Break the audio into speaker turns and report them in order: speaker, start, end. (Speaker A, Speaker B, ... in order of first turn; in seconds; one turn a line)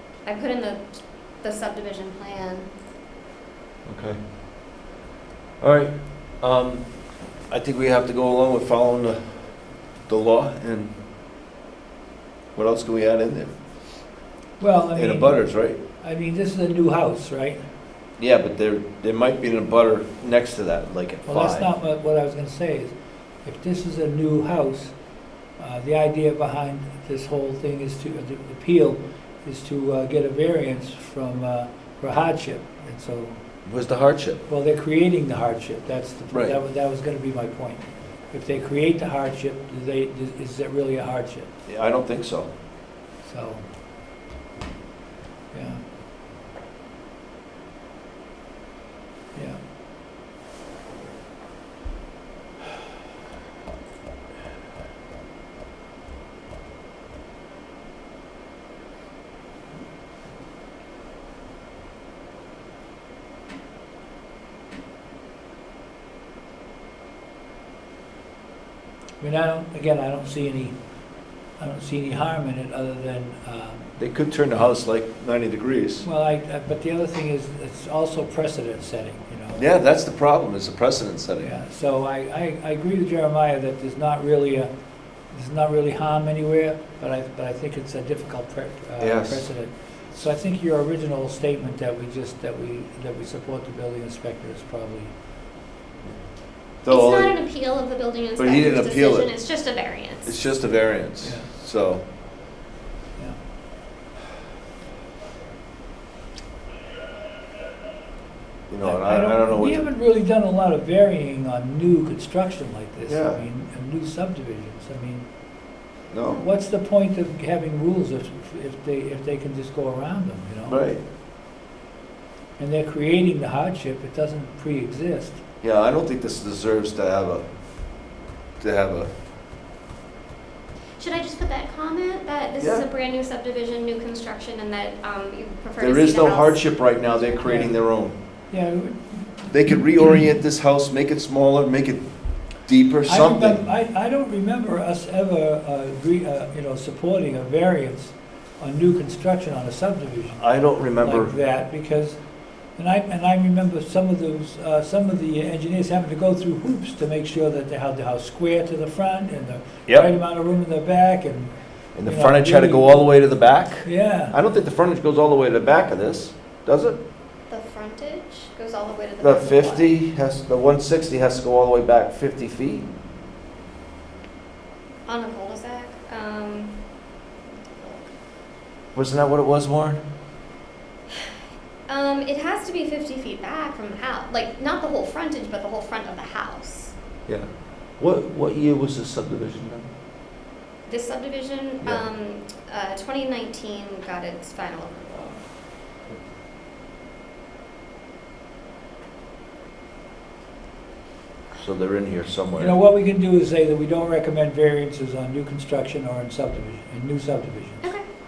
Speaker A: 0.2-2.7
Speaker B: 3.8-4.2
Speaker B: 5.6-10.9
Speaker B: 12.6-13.5
Speaker C: 14.6-17.6
Speaker B: 14.9-15.8
Speaker B: 18.2-21.7
Speaker C: 21.2-24.9
Speaker C: 25.6-33.4
Speaker B: 33.7-34.4
Speaker C: 34.5-41.5
Speaker B: 36.3-36.6
Speaker B: 41.7-42.5
Speaker C: 43.2-43.6
Speaker C: 45.5-45.8
Speaker C: 49.3-49.6
Speaker C: 69.2-70.8
Speaker C: 71.6-73.9
Speaker B: 74.0-76.1
Speaker C: 76.0-79.6
Speaker B: 79.5-81.5
Speaker C: 81.4-84.7
Speaker C: 85.3-95.1
Speaker B: 89.0-89.5
Speaker B: 96.8-97.3
Speaker A: 96.9-100.4
Speaker B: 98.4-99.3
Speaker B: 100.2-102.0
Speaker C: 101.2-101.5
Speaker B: 108.7-109.9
Speaker C: 108.8-115.3
Speaker B: 113.1-113.4
Speaker B: 116.1-116.4
Speaker C: 116.3-120.9
Speaker B: 120.7-121.0
Speaker C: 122.6-125.4
Speaker B: 125.6-128.0
Speaker B: 128.6-129.1
Speaker A: 131.0-137.4
Speaker B: 135.8-138.1
Speaker C: 137.4-137.8
Speaker C: 138.5-139.4
Speaker B: 139.5-143.6
Speaker C: 143.1-163.0
Speaker B: 150.4-151.3
Speaker B: 161.9-167.0
Speaker C: 163.8-164.3
Speaker A: 167.5-169.9
Speaker B: 169.2-172.9
Speaker A: 175.1-178.1
Speaker B: 178.9-180.0
Speaker A: 181.9-186.9
Speaker B: 187.3-189.8
Speaker A: 190.9-195.4
Speaker B: 201.6-202.8
Speaker C: 202.6-208.0